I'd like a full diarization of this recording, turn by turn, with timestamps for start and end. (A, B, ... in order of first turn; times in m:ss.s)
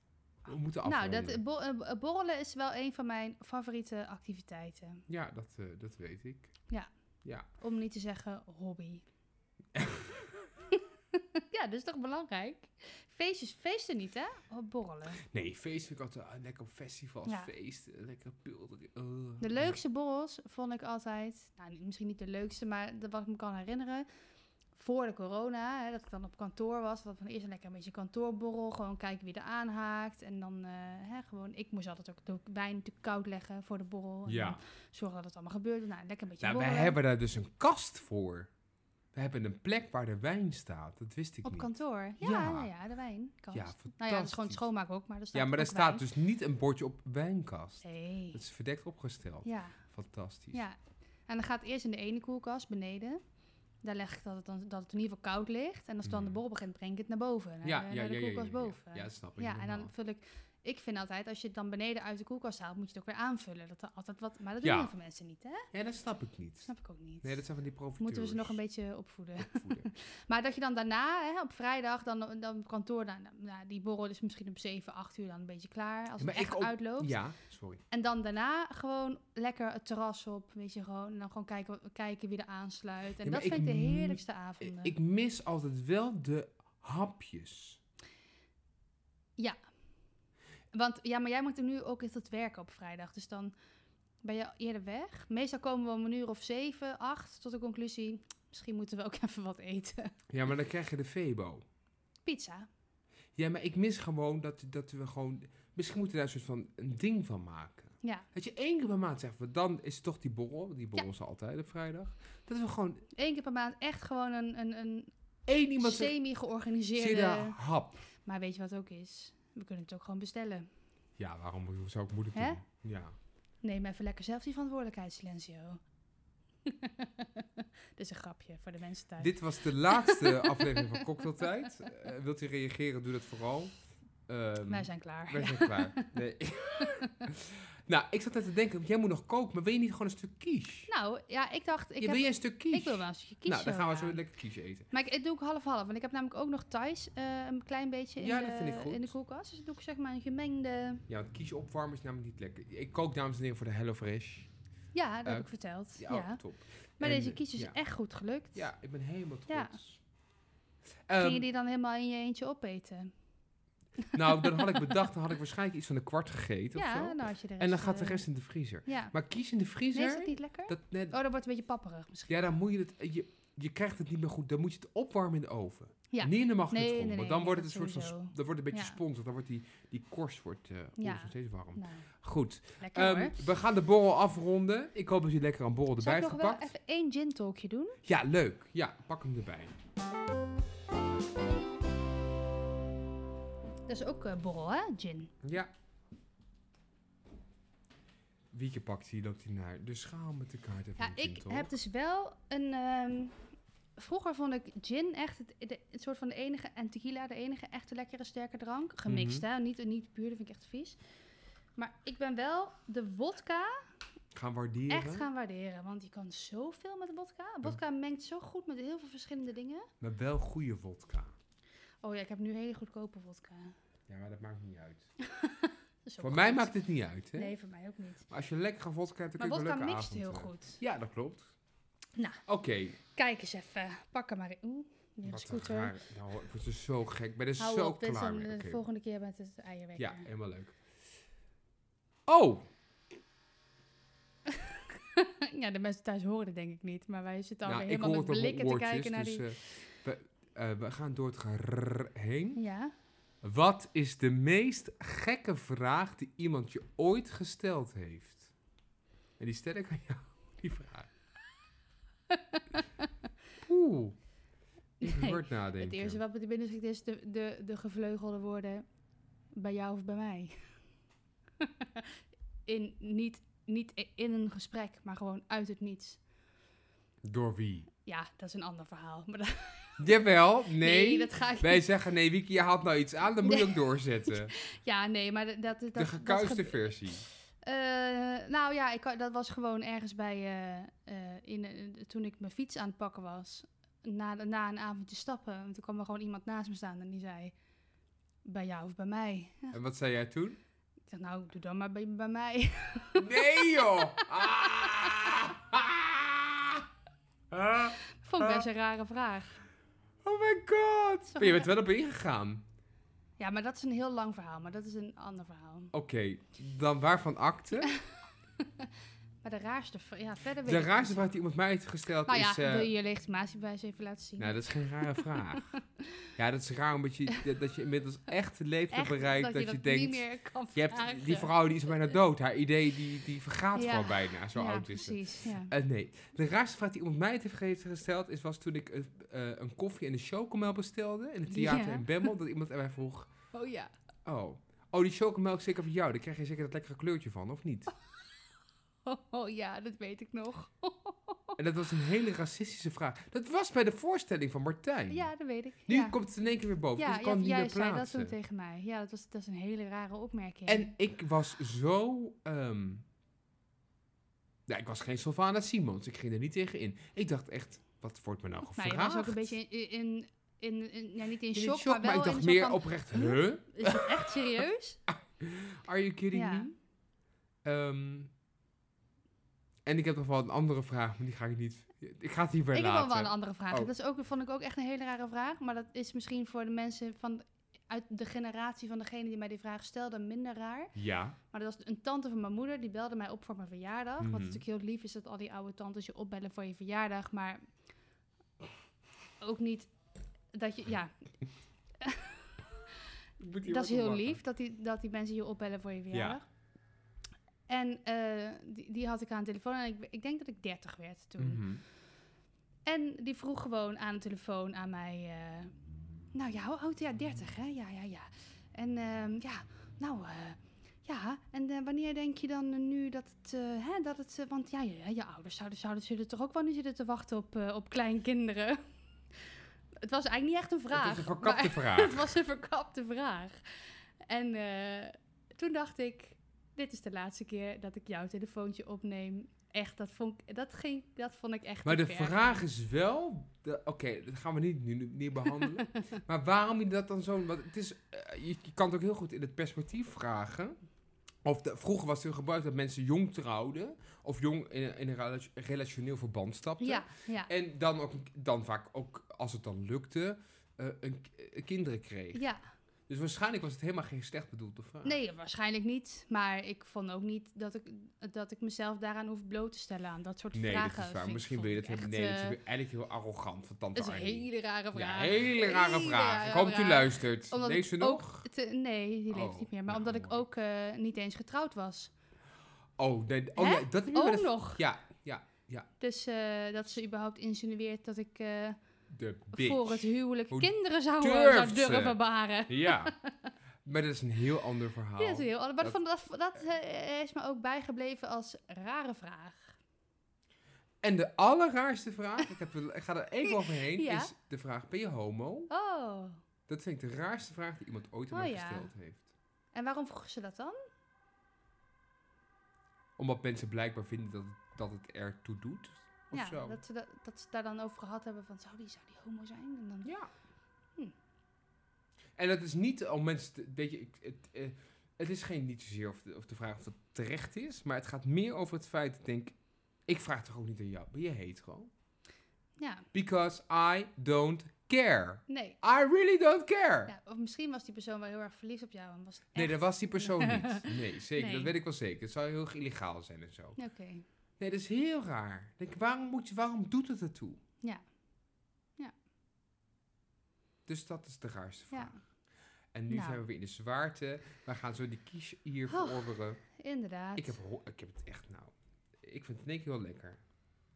0:00.4-0:01.4 A
0:00.8-0:05.0 B
0:05.1-0:06.5 A
0:07.6-0:09.0 B
0:09.7-0:10.4 A
0:10.7-0:15.2 B
0:15.2-0:19.7 A
0:19.4-0:24.1 B
0:24.8-0:37.0 B
0:34.2-0:34.6 A
0:36.4-0:38.5 A
0:39.1-0:42.7 A
0:41.4-0:46.0 B
0:43.5-0:44.6 A
0:45.3-0:50.6 A
0:47.8-0:48.4 B
0:49.4-0:49.8 B
0:51.3-0:53.2 B
0:53.8-1:05.7 B
0:56.0-0:56.4 A
0:57.6-0:59.9 A
1:04.6-1:04.9 A
1:05.7-1:06.7 A
1:06.6-1:07.4 B
1:07.2-1:08.6 A
1:08.0-1:17.2 B
1:09.4-1:09.9 A
1:16.2-1:17.8 A
1:17.9-1:24.9 B
1:23.2-1:27.8 A
1:30.7-1:33.5 B
1:34.2-1:40.1 B
1:40.3-1:41.6 A
1:42.2-1:42.7 B
1:43.4-1:53.0 A
1:53.1-1:55.1 B
1:55.5-1:56.1 A
1:55.8-1:57.6 B
1:57.0-1:58.0 A
1:58.2-2:00.7 B
2:01.2-2:03.2 A
2:02.3-2:02.6 B
2:03.6-2:05.8 B
2:06.6-2:11.7 B
2:09.2-2:13.7 A
2:14.3-2:20.9 A
2:14.7-2:16.1 B
2:16.8-2:17.2 B
2:20.9-2:24.2 B
2:22.0-2:24.9 A
2:24.9-2:31.0 B
2:28.2-2:29.1 A
2:31.1-2:34.5 A
2:34.9-2:36.4 B
2:35.2-2:37.8 A
2:37.0-2:38.7 B
2:38.5-2:40.0 A
2:39.5-2:39.8 B
2:41.1-2:41.5 A
2:41.2-2:43.1 B
2:44.1-2:51.1 A
2:44.2-2:44.9 B
2:46.8-2:48.2 B
2:48.8-2:49.1 B
2:49.9-2:52.4 B
2:52.3-3:06.7 A
2:56.1-2:59.0 B
3:01.0-3:02.1 B
3:02.8-3:03.4 B
3:06.0-3:08.0 B
3:08.0-3:09.7 A
3:13.9-3:15.3 B
3:15.4-3:15.7 A
3:18.5-3:21.7 A
3:21.0-3:23.3 B
3:24.0-3:31.0 B
3:29.1-3:29.4 A
3:31.8-3:33.8 B
3:34.3-3:35.3 A
3:34.9-3:39.9 B
3:40.0-3:41.3 A
3:42.0-3:43.7 B
3:44.1-3:45.1 A
3:45.2-3:46.7 B
3:46.2-3:47.5 A
3:47.3-3:48.3 B
3:48.3-3:51.5 A
3:49.4-3:50.8 B
3:52.5-3:53.0 A
3:53.1-3:55.9 B
3:55.2-3:58.8 A
3:57.6-4:00.2 B
4:00.0-4:00.8 A
4:02.3-4:02.7 A
4:04.5-4:09.4 B
4:07.6-4:12.6 A
4:12.5-4:12.9 B
4:13.4-4:18.5 A
4:19.4-4:21.1 A
4:22.3-4:23.1 B
4:23.6-4:24.2 A
4:25.0-4:26.2 A
4:25.0-4:28.8 B
4:29.5-4:30.6 B
4:31.6-4:36.2 B
4:37.2-4:37.9 A
4:38.0-4:40.0 B
4:40.0-4:44.5 A
4:40.8-4:41.9 B
4:43.4-4:46.9 B
4:46.0-4:47.3 A
4:47.6-4:57.5 B
4:58.4-4:59.8 B
4:59.7-5:00.6 A
5:01.1-5:05.3 B
5:03.2-5:06.9 A
5:07.5-5:08.7 A
5:08.0-5:09.6 B
5:10.2-5:12.6 A
5:11.3-5:11.7 B
5:13.4-5:15.9 B
5:15.9-5:17.9 A
5:18.6-5:18.9 B
5:19.4-5:21.3 B
5:20.6-5:22.9 A
5:22.2-5:25.8 B
5:24.4-5:25.7 A
5:26.4-5:43.3 A
5:28.9-5:31.6 B
5:33.7-5:35.7 B
5:41.5-5:42.2 B
5:43.5-5:43.9 B
5:44.2-5:47.9 A
5:49.0-5:51.6 B
5:51.6-5:55.3 A
5:55.1-5:56.2 B
5:55.8-5:58.3 A
5:57.0-6:00.9 B
6:00.7-6:03.0 A
6:04.7-6:09.6 A
6:08.8-6:15.0 B
6:11.5-6:14.3 A
6:15.1-6:16.7 A
6:16.3-6:16.7 B
6:17.6-6:18.3 A
6:19.8-6:23.9 A
6:22.7-6:30.9 B
6:30.9-6:31.4 A
6:31.5-6:37.6 B
6:34.2-6:34.6 A
6:39.4-6:39.9 B
6:40.5-6:41.1 B
6:42.0-6:43.0 B
6:43.4-6:44.4 A
6:43.6-6:46.4 B
6:46.1-6:46.4 A
6:47.7-6:51.6 B
6:51.4-6:51.8 A
6:52.9-6:55.7 B
6:56.3-7:08.8 B
7:10.0-7:22.6 B
7:10.9-7:12.3 A
7:21.8-7:30.8 A
7:25.6-7:26.0 B
7:31.4-7:42.4 A
7:36.8-7:37.5 B
7:42.3-7:42.6 B
7:43.1-7:45.2 A
7:45.0-7:52.6 B
7:50.5-7:58.4 A
7:53.9-8:02.1 B
7:59.3-8:00.4 A
8:03.0-8:05.9 A
8:03.6-8:04.8 B
8:06.0-8:08.8 B
8:09.1-8:13.1 A
8:09.5-8:13.5 B
8:13.8-8:16.0 A
8:15.2-8:19.8 B
8:21.0-8:25.7 A
8:23.4-8:24.3 B
8:25.7-8:26.4 B
8:26.7-8:29.3 A
8:28.3-8:28.9 B
8:29.7-8:30.8 B
8:33.2-8:36.8 A
8:36.3-8:40.1 B
8:40.0-8:40.3 A
8:42.4-8:49.5 A
8:50.1-8:51.9 A
8:52.8-8:53.0 B
8:53.1-8:57.1 A
8:55.5-8:55.8 B
8:57.1-9:01.7 B
8:59.5-9:03.8 A
9:03.8-9:04.2 B
9:04.6-9:07.6 A
9:10.9-9:12.1 A
9:11.9-9:12.2 B
9:12.9-9:16.6 A
9:13.1-9:13.4 B
9:15.9-9:17.6 B
9:17.4-9:20.4 A